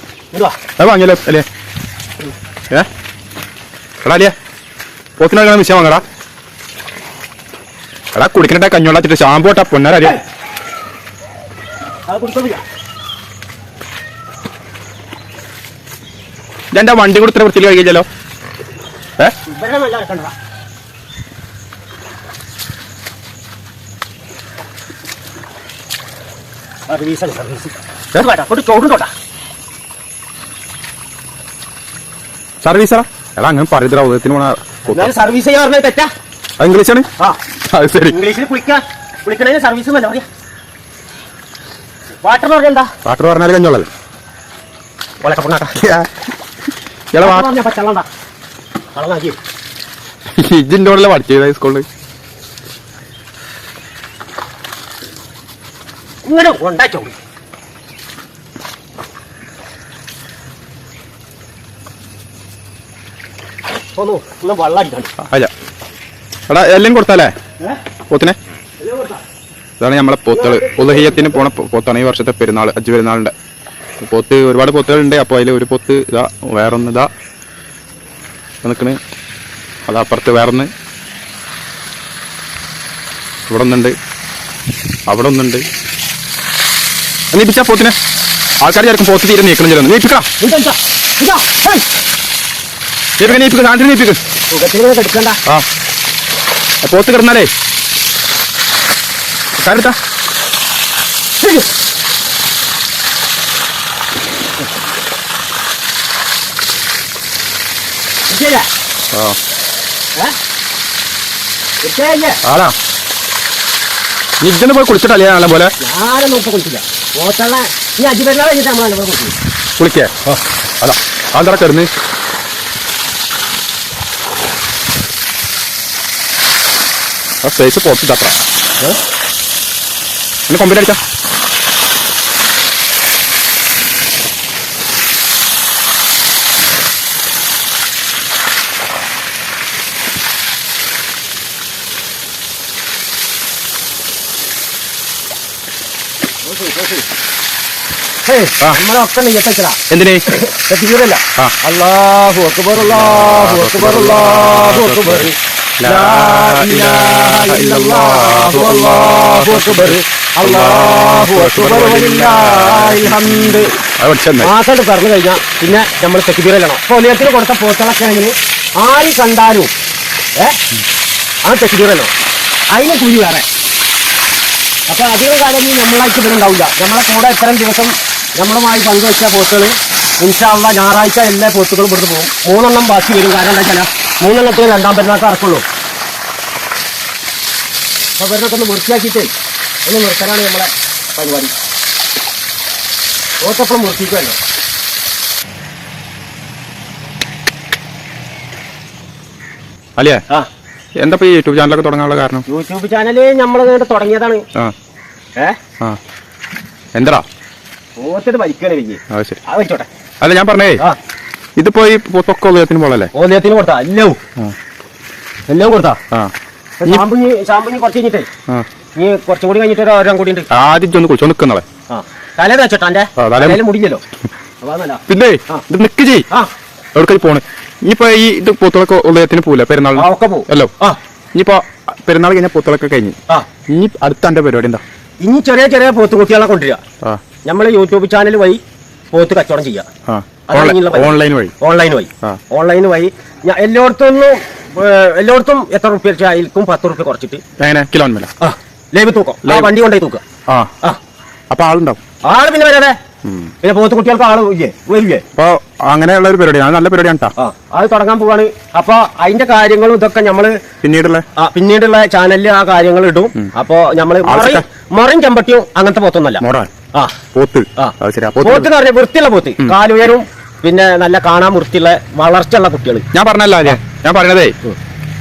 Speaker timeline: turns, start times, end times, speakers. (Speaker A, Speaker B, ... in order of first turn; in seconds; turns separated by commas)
Speaker A: 0.3-0.6, Speaker B: 0.8-1.4, Speaker B: 4.0-4.3, Speaker B: 5.2-6.0, Speaker B: 8.1-10.2, Speaker A: 12.1-12.6, Speaker B: 16.7-18.1, Speaker A: 19.4-20.3, Speaker A: 26.9-29.1, Speaker B: 32.6-35.1, Speaker A: 34.9-36.1, Speaker B: 36.6-37.0, Speaker B: 37.6-38.2, Speaker A: 38.0-40.2, Speaker A: 42.2-42.9, Speaker B: 43.0-43.9, Speaker A: 45.2-45.8, Speaker B: 45.8-46.1, Speaker B: 47.1-47.5, Speaker A: 47.2-48.1, Speaker A: 48.9-49.4, Speaker B: 50.4-51.9, Speaker A: 56.2-57.2, Speaker A: 63.9-65.1, Speaker B: 65.2-65.5, Speaker B: 66.5-67.3, Speaker B: 68.1-68.3, Speaker A: 68.8-69.2, Speaker B: 69.8-73.3, Speaker A: 70.3-71.4, Speaker B: 74.0-77.1, Speaker B: 78.6-79.0, Speaker B: 79.9-80.7, Speaker B: 83.5-83.9, Speaker B: 85.1-85.6, Speaker B: 87.3-88.0, Speaker B: 88.6-90.2, Speaker A: 90.4-91.8, Speaker B: 93.2-94.2, Speaker A: 94.5-95.4, Speaker B: 96.8-97.5, Speaker B: 99.6-100.0, Speaker A: 101.4-101.7, Speaker A: 108.3-108.7, Speaker A: 111.8-112.4, Speaker B: 112.4-112.7, Speaker B: 114.4-115.7, Speaker A: 115.8-119.3, Speaker B: 119.8-120.1, Speaker B: 120.8-121.9, Speaker B: 127.4-128.4, Speaker B: 130.5-131.0, Speaker A: 146.4-147.1, Speaker A: 148.2-163.7, Speaker B: 149.9-150.2, Speaker B: 152.8-155.3, Speaker B: 155.8-164.5, Speaker A: 164.4-169.7, Speaker A: 171.4-172.1, Speaker A: 172.7-173.4, Speaker A: 174.9-185.6, Speaker A: 188.2-189.3, Speaker A: 189.8-191.5, Speaker A: 193.4-194.4, Speaker B: 200.0-200.2, Speaker B: 201.0-202.4, Speaker A: 202.5-204.4, Speaker B: 206.9-207.2, Speaker A: 208.0-209.9, Speaker B: 209.1-209.4, Speaker B: 210.2-210.8, Speaker B: 211.6-213.1, Speaker A: 213.1-214.2, Speaker A: 215.5-216.0, Speaker A: 216.8-218.3, Speaker A: 218.9-220.5, Speaker B: 220.5-221.6, Speaker A: 221.9-224.0, Speaker B: 223.2-223.6, Speaker A: 224.6-225.6, Speaker B: 225.1-226.2, Speaker B: 226.9-230.7, Speaker A: 229.9-231.0, Speaker B: 231.3-233.1, Speaker B: 233.7-234.8, Speaker A: 235.2-236.8, Speaker A: 237.4-238.6, Speaker A: 239.1-239.9, Speaker B: 240.1-241.5, Speaker A: 240.5-247.4, Speaker B: 247.6-248.3, Speaker A: 248.4-250.2, Speaker B: 249.4-249.7, Speaker B: 251.5-252.0, Speaker A: 252.2-252.9, Speaker B: 253.2-253.5, Speaker A: 253.6-255.2, Speaker B: 255.3-257.3, Speaker A: 257.4-260.6, Speaker B: 260.8-261.2, Speaker A: 261.4-266.4, Speaker B: 264.2-264.6, Speaker B: 266.4-266.7, Speaker B: 267.3-268.7, Speaker A: 267.8-273.0, Speaker B: 273.1-274.6